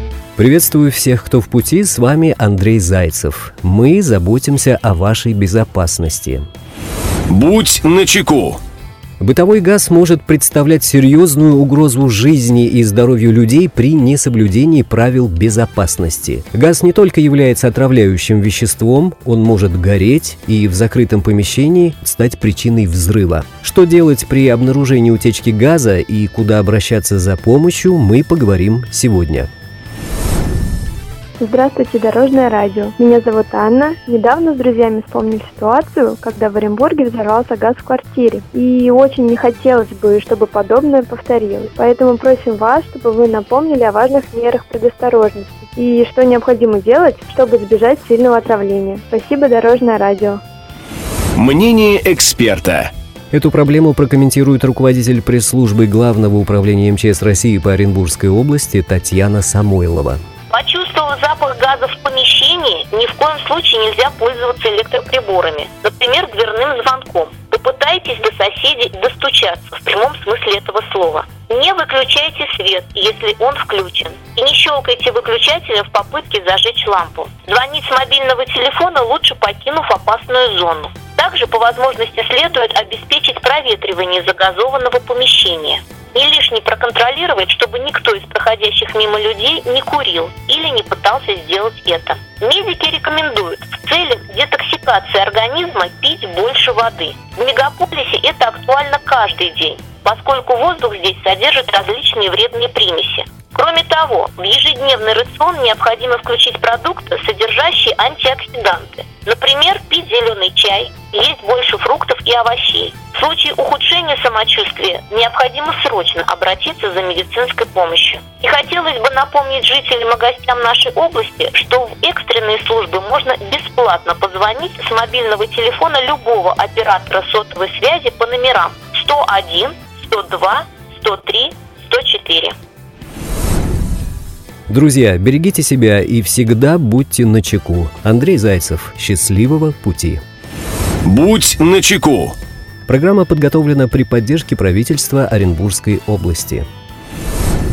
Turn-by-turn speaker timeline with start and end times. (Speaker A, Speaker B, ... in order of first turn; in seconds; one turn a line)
Speaker A: 0.4-6.4
Speaker B: 7.3-8.6
Speaker A: 9.2-29.5
Speaker C: 31.4-50.4
Speaker B: 51.4-52.9
Speaker A: 53.3-60.2
Speaker D: 60.5-132.5
Speaker A: 134.7-140.2
Speaker B: 141.0-142.3
Speaker A: 142.9-146.6